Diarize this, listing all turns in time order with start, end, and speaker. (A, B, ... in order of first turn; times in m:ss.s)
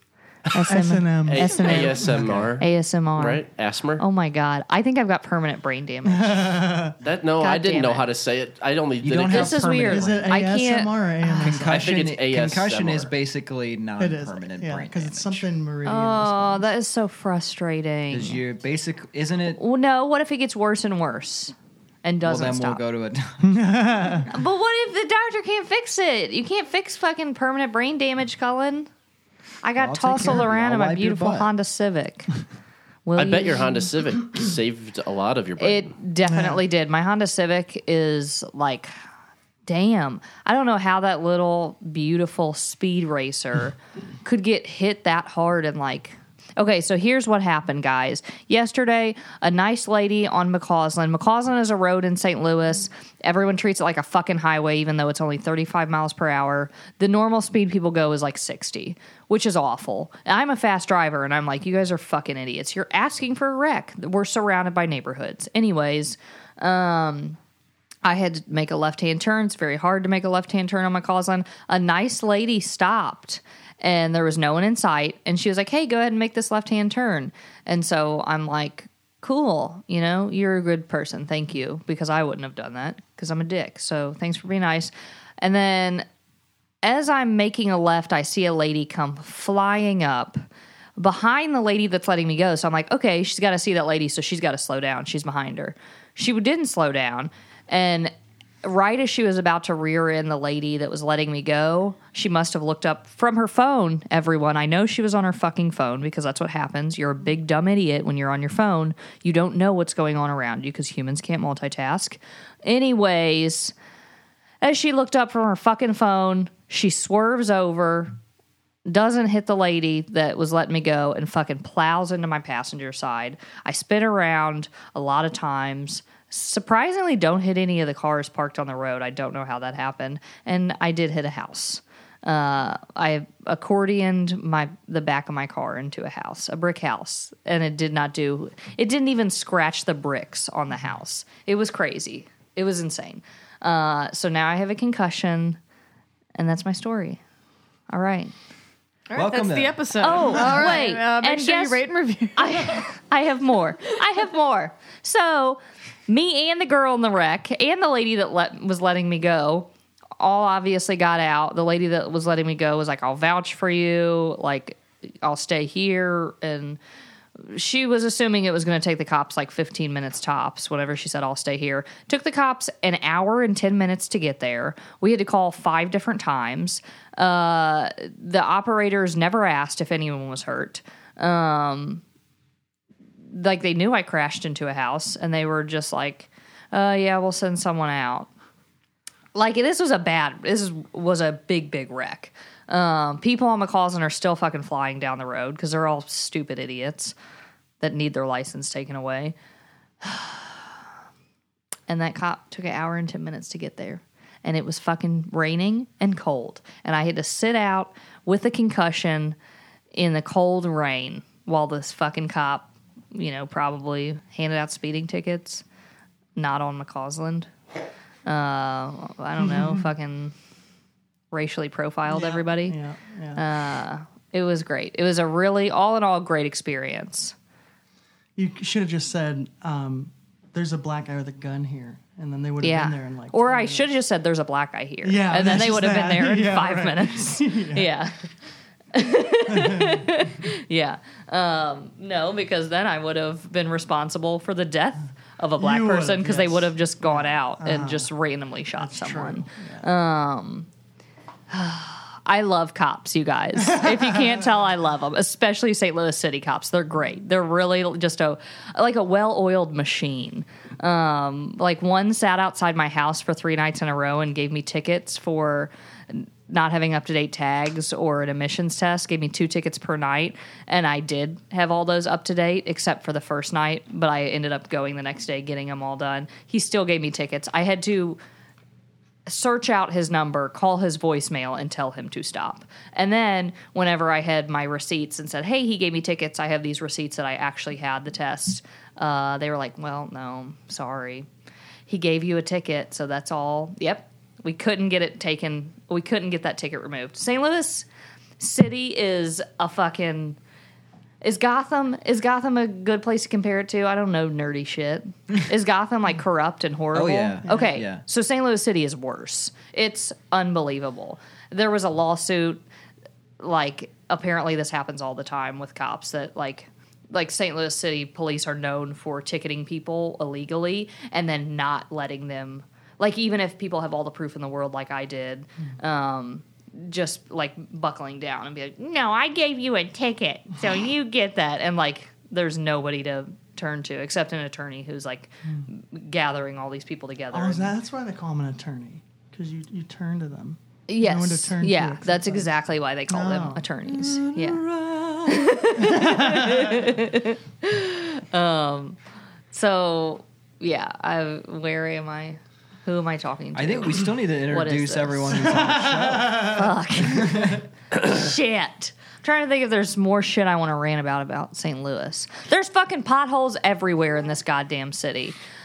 0:00.5-0:03.4 A
0:00.7-0:02.0 B
0:01.3-0:04.0 C
0:02.1-0:02.6 D
0:04.0-0:06.8 A
0:06.1-0:07.0 B
0:07.0-0:09.9 C
0:07.4-0:08.1 A
0:09.0-0:10.3 D
0:09.3-0:11.6 A
0:09.8-0:11.8 B
0:11.4-0:15.5 D
0:11.6-0:13.1 C
0:14.0-0:16.7 B
0:15.8-0:18.4 A
0:18.1-0:19.6 D
0:19.6-0:22.8 A
0:22.2-0:24.2 D
0:23.4-0:24.3 B
0:24.3-0:28.9 A
0:29.6-0:32.3 A
0:29.8-0:31.5 D
0:33.1-0:33.9 A
0:33.2-0:35.9 C
0:35.6-0:38.9 A
0:36.3-0:36.6 B
0:39.7-1:07.4 A
1:08.0-1:26.1 A
1:26.8-1:30.4 A
1:31.0-1:38.1 A
1:38.6-1:53.7 A
1:54.6-1:58.2 A
1:58.9-2:25.6 A
2:26.4-2:27.2 A
2:27.9-2:28.3 A
2:29.1-2:32.8 E
2:29.1-2:30.6 D
2:30.0-2:31.8 A
2:32.4-2:46.8 A
2:47.4-3:02.0 A
3:03.3-3:08.3 A
3:09.4-3:17.2 A
3:17.8-3:19.4 A
3:20.0-3:20.6 A
3:21.9-3:29.4 A
3:29.9-3:35.6 A
3:36.4-3:37.5 A
3:38.3-3:40.3 A
3:39.5-3:39.7 B
3:41.3-3:42.8 A
3:42.1-3:43.4 B
3:43.4-3:47.4 A
3:48.4-3:53.9 B
3:52.6-3:58.3 A
3:55.0-3:57.9 B
3:58.9-4:10.7 A
3:59.5-3:59.9 B
4:05.6-4:08.1 B
4:08.8-4:09.9 B
4:11.5-4:38.2 A
4:13.7-4:14.1 B
4:39.3-4:51.3 A
4:51.9-4:57.8 A
4:58.4-5:00.4 A
5:01.2-5:12.6 A
5:06.9-5:08.0 D
5:13.4-5:37.8 A
5:37.3-5:42.5 B
5:40.9-5:49.0 A
5:43.1-5:44.8 B
5:45.8-5:46.8 B
5:49.5-5:55.6 A
5:53.5-5:57.5 D
5:55.5-5:56.5 B
5:56.4-6:05.4 A